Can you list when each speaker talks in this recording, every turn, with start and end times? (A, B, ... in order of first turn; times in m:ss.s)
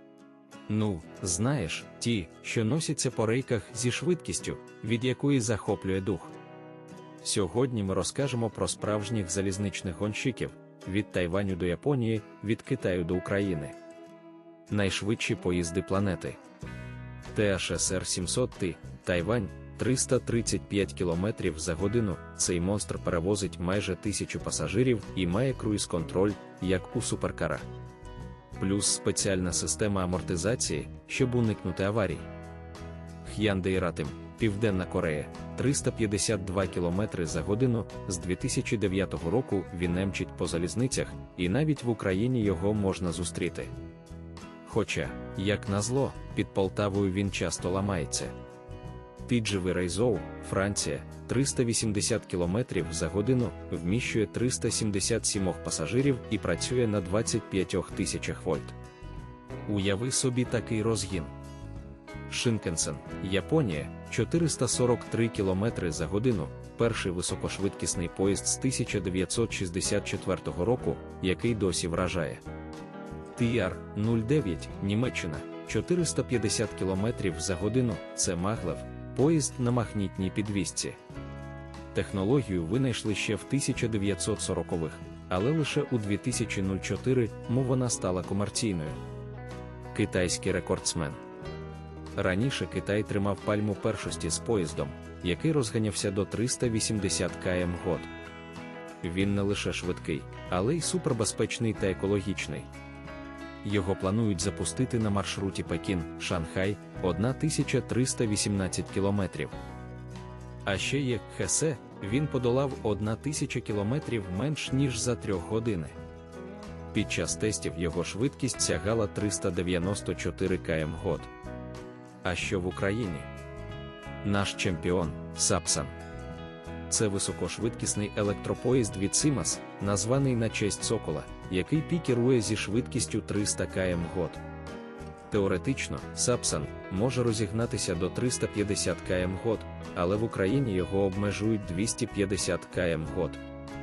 0:00.7-0:06.3 A
0:07.2-0:13.8 A
0:14.7-0:16.4 A
0:17.3-0:27.6 A
0:28.6-0:32.3 A
0:33.2-0:43.7 A
0:44.6-0:48.3 A
0:49.3-0:58.7 A
0:59.7-1:01.3 A
1:02.3-1:12.4 A
1:13.4-1:21.0 A
1:21.9-1:29.0 A
1:29.9-1:31.2 A
1:32.2-1:38.1 A
1:39.0-1:42.7 A
1:43.6-1:49.6 A
1:50.6-1:56.0 A
1:56.9-2:01.3 A
2:02.2-2:03.3 A
2:04.2-2:05.9 A
2:06.9-2:14.4 A
2:15.3-2:23.4 A